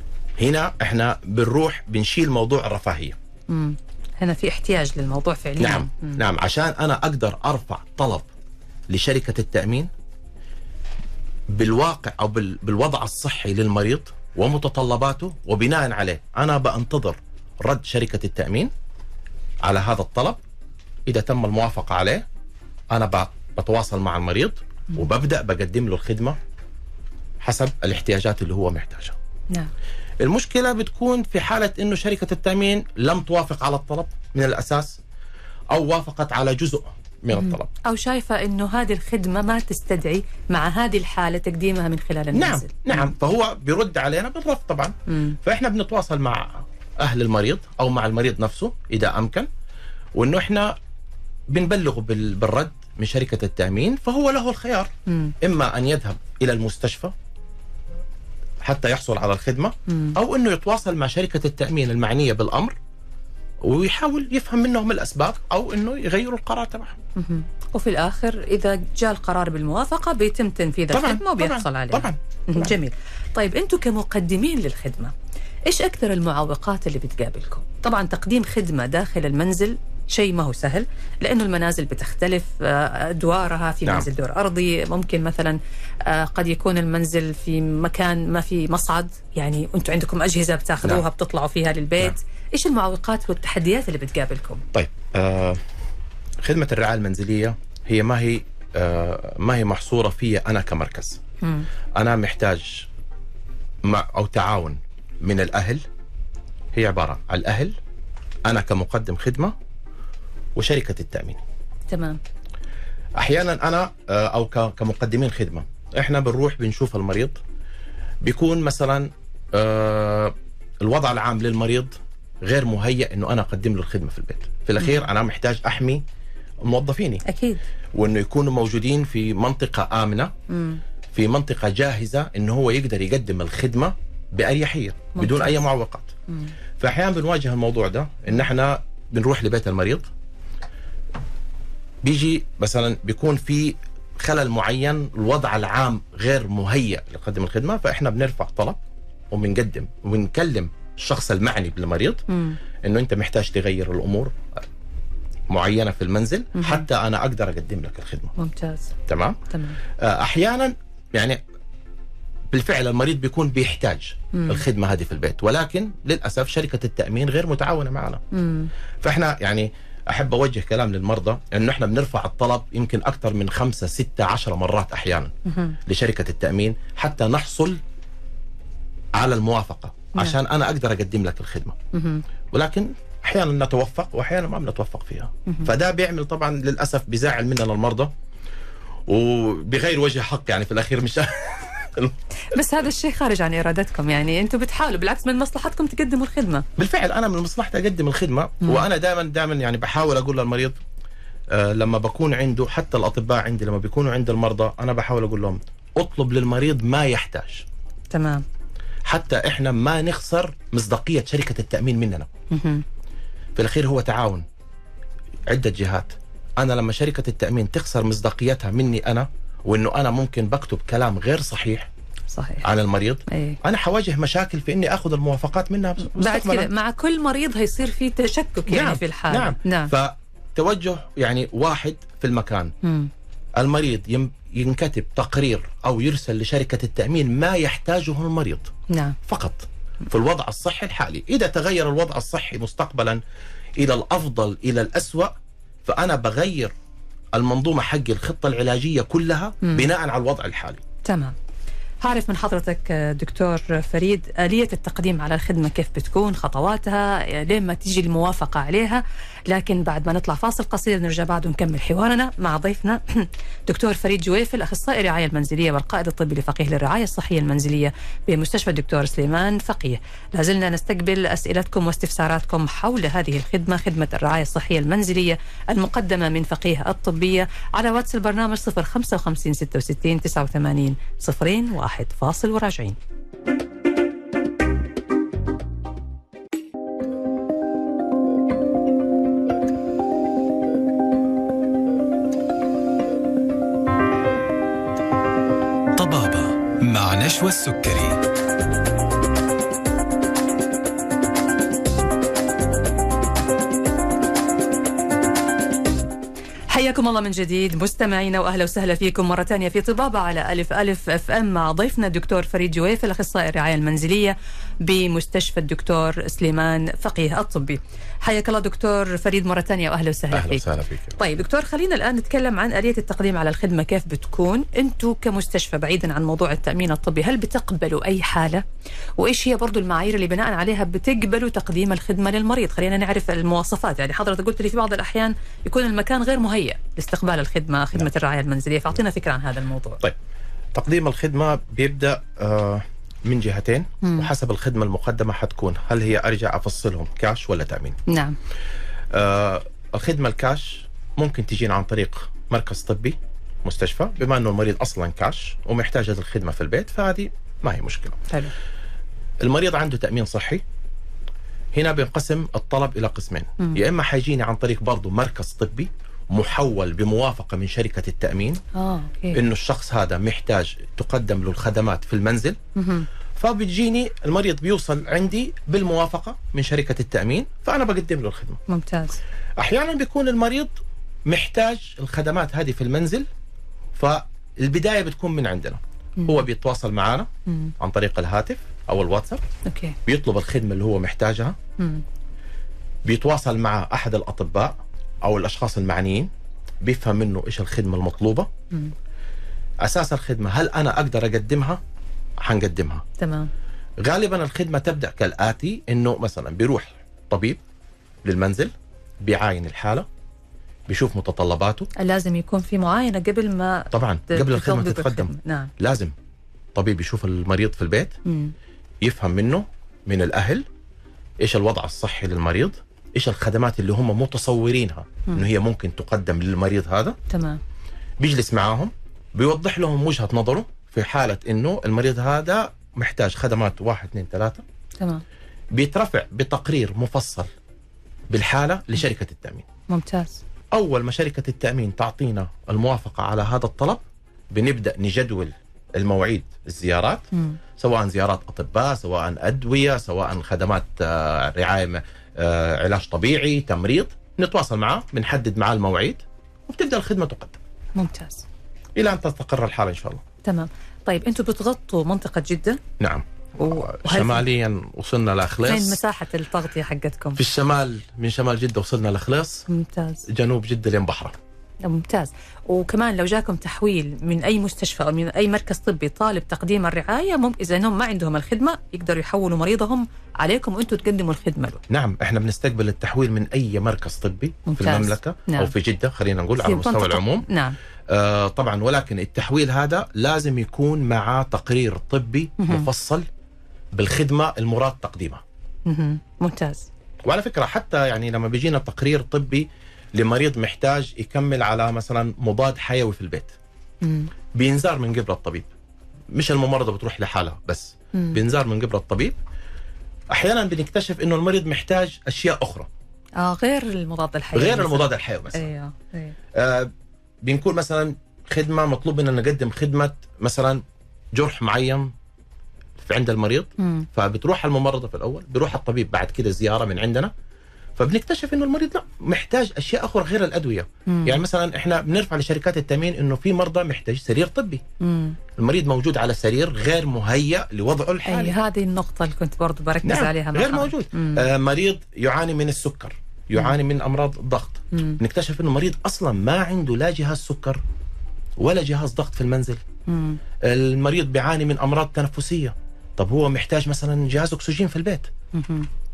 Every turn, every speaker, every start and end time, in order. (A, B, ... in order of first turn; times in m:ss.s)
0:00.4-0:03.2 A
0:03.5-0:06.2 B
0:05.6-0:08.3 A
0:08.9-0:09.9 A
0:11.5-0:18.7 A
0:19.6-0:20.4 A
0:21.1-0:22.2 A
0:22.9-0:26.4 A
0:27.4-0:29.2 A
0:30.2-0:35.0 A
0:35.7-0:37.7 A
0:37.3-0:43.1 B
0:42.3-0:49.5 A
0:45.1-0:45.4 B
0:50.1-0:50.8 A
0:51.5-0:57.1 A
0:55.1-0:55.3 B
0:58.6-1:02.7 A
0:59.9-1:00.2 B
1:03.6-1:07.0 A
1:07.2-1:15.1 B
1:10.9-1:12.8 A
1:15.7-1:34.6 B
1:34.7-1:35.6 A
1:36.4-1:41.2 A
1:41.4-1:41.7 B
1:41.9-1:42.9 A
1:43.8-1:45.8 A
1:46.7-1:47.8 A
1:48.5-1:49.5 A
1:50.6-1:51.4 A
1:51.9-1:52.2 B
1:53.2-1:57.4 A
1:58.2-2:06.0 A
2:06.6-2:07.2 A
2:07.2-2:07.6 B
2:07.9-2:10.3 A
2:10.5-2:10.8 B
2:11.1-2:16.1 A
2:15.2-2:15.6 B
2:16.8-2:20.1 A
2:22.0-2:28.8 A
2:29.3-2:32.2 A
2:32.3-2:32.6 B
2:32.8-2:34.3 A
2:35.5-2:38.3 A
2:36.6-2:36.8 B
2:38.4-2:38.9 B
2:39.1-2:41.4 A
2:39.5-2:39.8 B
2:42.5-2:48.2 A
2:44.3-2:44.6 B
2:48.3-2:48.7 B
2:49.0-2:55.3 A
2:55.4-2:55.8 B
2:55.8-2:57.8 A
2:59.1-3:01.8 A
3:01.9-3:02.2 B
3:02.5-3:08.1 A
3:09.1-3:12.1 A
3:12.5-3:16.6 B
3:16.8-3:20.8 A
3:21.5-3:27.6 A
3:28.1-3:28.4 B
3:29.0-3:32.3 A
3:32.5-3:32.8 B
3:33.6-3:34.4 A
3:35.5-3:41.9 A
3:42.3-3:42.7 B
3:42.6-3:46.7 A
3:43.3-3:43.6 B
3:46.1-3:49.9 B
3:48.7-3:52.7 A
3:52.8-3:53.1 B
3:53.6-3:58.7 A
3:58.9-3:59.2 B
3:59.2-4:03.2 A
4:03.8-4:05.3 A
4:05.8-4:06.7 A
4:07.3-4:10.8 A
4:09.6-4:09.9 B
4:11.0-4:11.3 B
4:12.0-4:43.0 B
4:56.0-4:58.2 C
5:06.7-5:20.6 B
5:20.3-5:21.2 A
5:21.2-5:28.6 B
5:29.2-5:40.0 B
5:40.7-5:48.0 A
5:44.0-5:44.3 B
5:48.1-5:48.4 B
5:49.1-5:58.2 A
5:59.4-6:00.6 A
6:01.7-6:08.6 A
6:08.7-6:09.4 B
6:09.3-6:12.6 A
6:12.8-6:13.1 B
6:13.4-6:18.6 A
6:18.7-6:19.2 B
6:19.6-6:20.7 A
6:21.2-6:23.3 A
6:23.9-6:29.4 A
6:27.5-6:27.7 B
6:29.6-6:30.0 B
6:30.0-6:31.6 A
6:31.8-6:32.0 B
6:33.0-6:36.3 A
6:36.8-6:38.5 A
6:39.8-6:41.8 A
6:42.4-6:43.0 A
6:43.2-6:43.5 B
6:44.0-6:47.6 A
6:48.2-6:50.1 A
6:50.9-6:51.9 A
6:52.0-6:55.7 B
6:53.9-6:56.1 A
6:56.7-6:58.2 A
6:58.2-6:58.5 B
6:59.0-7:00.6 A
7:01.4-7:07.2 A
7:07.3-7:07.6 B
7:08.2-7:14.6 A
7:15.7-7:17.5 A
7:18.3-7:19.6 A
7:19.9-7:20.4 B
7:20.7-7:24.0 A
7:24.5-7:37.6 A
7:27.3-7:27.6 B
7:38.0-7:38.4 B
7:39.0-7:40.2 A
7:40.4-7:42.8 B
7:43.0-7:46.0 A
7:43.6-7:44.4 B
7:45.6-7:47.4 B
7:47.4-7:49.7 A
7:49.7-7:50.2 B
7:50.3-7:51.4 A
7:51.8-8:01.8 B
8:01.9-8:07.4 A
8:04.7-8:05.7 B
8:06.6-8:07.8 B
8:08.1-8:13.3 A
8:12.6-8:12.9 B
8:13.9-8:15.4 A
8:15.8-8:16.9 B
8:17.2-8:23.5 A
8:24.0-8:24.3 B
8:24.5-8:25.7 A
8:26.3-8:29.4 A
8:28.1-8:28.4 B
8:30.3-8:32.9 A
8:33.4-8:36.3 B
8:34.5-8:35.7 A
8:36.5-8:36.9 A
8:37.4-8:40.8 A
8:41.3-8:42.1 A
8:43.0-8:47.3 A
8:43.8-8:44.1 B
8:48.0-8:54.8 A
8:51.1-8:51.4 B
8:55.0-8:55.4 B
8:55.6-8:58.6 A
8:58.2-9:01.4 B
9:00.0-9:07.8 A
9:04.9-9:05.2 B
9:08.6-9:09.8 A
9:10.1-9:10.4 B
9:10.6-9:15.3 A
9:15.5-9:15.9 B